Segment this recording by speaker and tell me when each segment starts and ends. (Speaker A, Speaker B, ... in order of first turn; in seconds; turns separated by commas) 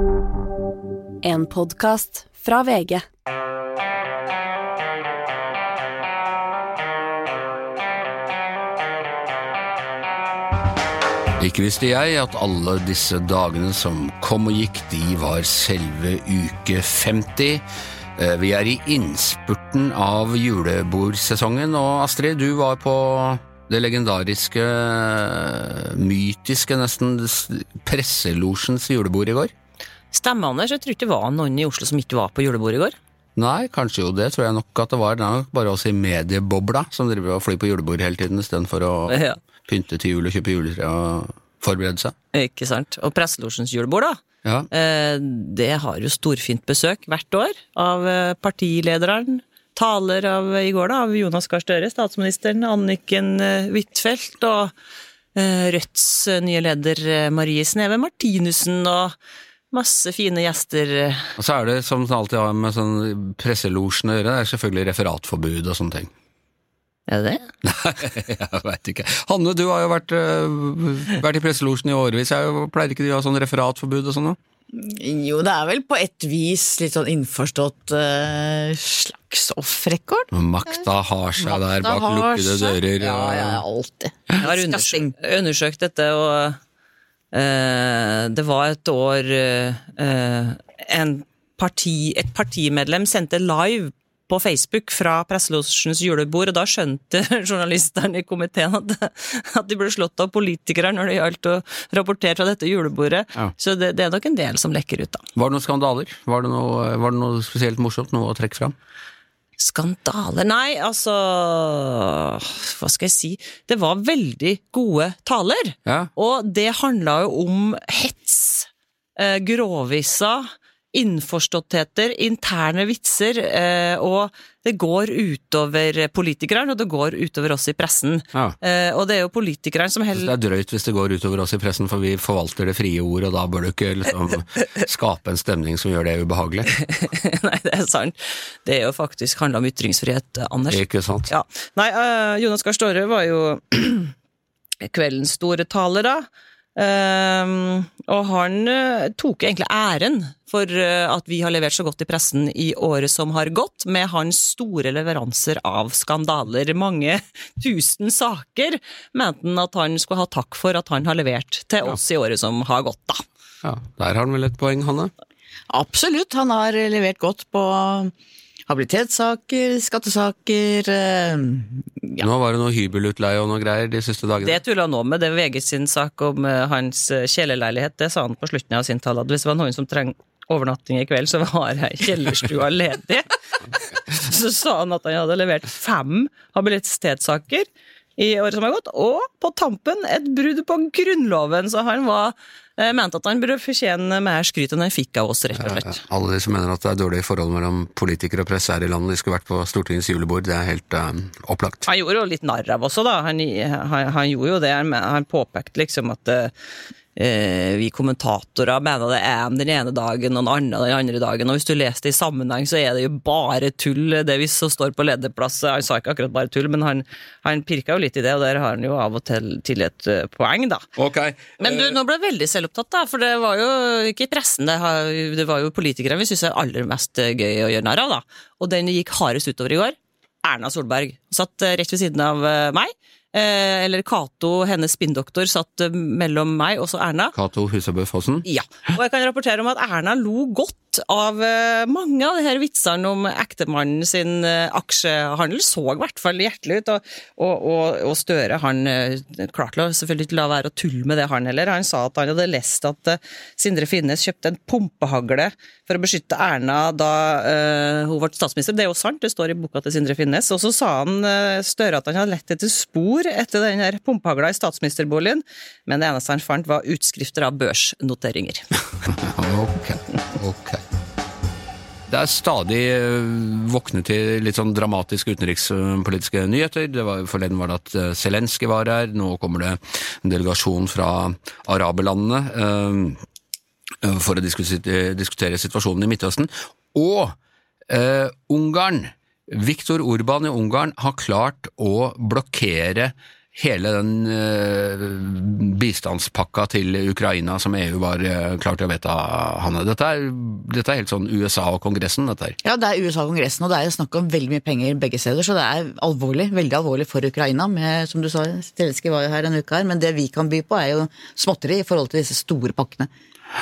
Speaker A: 0.3-3.1, Speaker B: 11.4-17.6, Speaker B: 18.2-29.5, Speaker C: 30.1-33.0, Speaker B: 33.4-42.1, Speaker C: 39.1-39.4, Speaker C: 42.3-54.7, Speaker C: 55.4-59.2, Speaker C: 59.7-61.3, Speaker B: 61.4-66.1, Speaker C: 67.1-67.5, Speaker B: 67.6-74.4, Speaker D: 74.7-80.9, Speaker B: 80.3-83.6, Speaker D: 81.4-85.1, Speaker C: 84.4-86.6, Speaker C: 87.3-105.2, Speaker B: 105.4-108.8, Speaker C: 109.6-130.3, Speaker B: 115.9-116.1, Speaker B: 130.1-136.8, Speaker C: 136.8-144.1, Speaker B: 140.7-141.3, Speaker C: 144.8-163.2, Speaker B: 163.6-165.1, Speaker D: 165.7-168.1, Speaker D: 168.7-172.2, Speaker B: 172.2-174.6, Speaker C: 174.4-196.0, Speaker B: 195.6-201.9, Speaker C: 201.9-206.5, Speaker C: 207.2-220.9, Speaker B: 221.0-222.0, Speaker C: 221.6-237.3, Speaker B: 237.3-238.5, Speaker C: 238.5-268.7, Speaker B: 269.1-270.8, Speaker B: 272.1-283.2, Speaker B: 284.0-287.4, Speaker B: 287.9-302.6, Speaker D: 302.6-313.1